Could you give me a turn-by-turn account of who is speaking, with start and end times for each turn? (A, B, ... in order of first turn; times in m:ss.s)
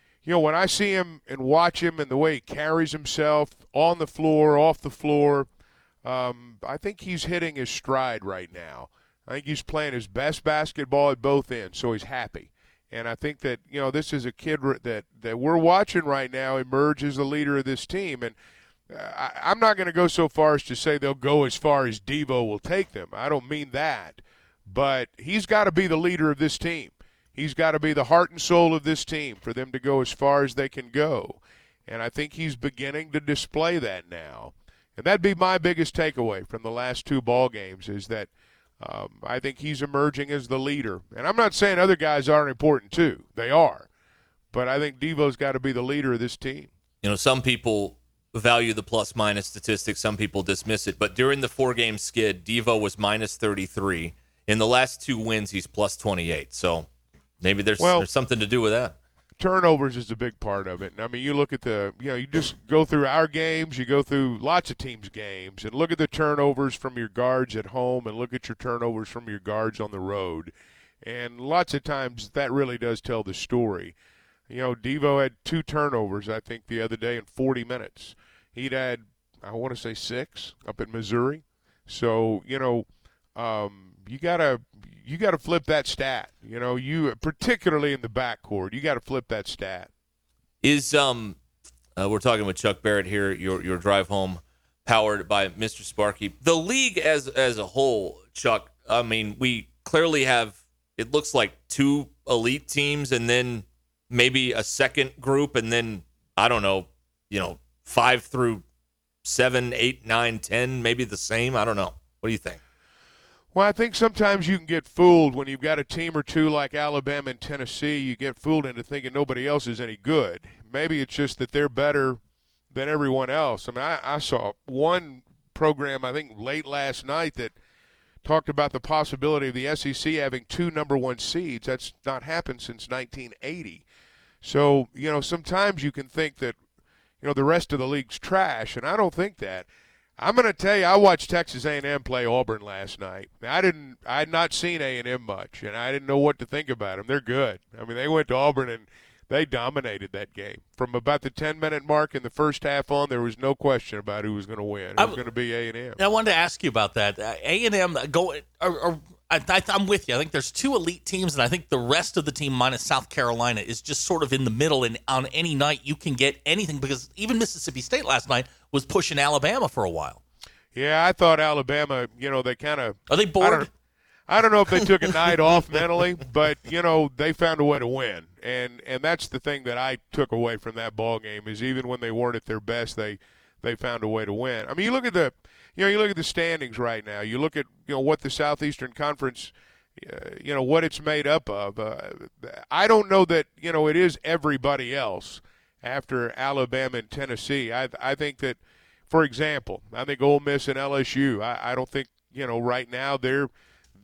0:00.2-0:05.5 A
0:06.0-0:18.4 A
0:18.9-0:43.9 A
0:44.5-0:46.7 A
0:47.0-0:56.9 B
0:57.4-0:59.0 B
0:57.8-0:58.1 A
0:59.4-1:13.9 A
1:14.5-1:29.9 A
1:30.6-1:31.4 B
1:32.0-1:48.6 B
1:49.2-1:52.6 B
1:53.5-2:02.2 A
2:02.7-2:07.5 A
2:08.2-2:13.8 A
2:14.4-2:16.6 A
2:17.2-2:36.0 A
2:35.0-2:35.2 C
2:36.0-2:50.2 C
2:50.7-2:53.7 A
2:53.1-2:53.7 C
2:54.3-3:23.5 A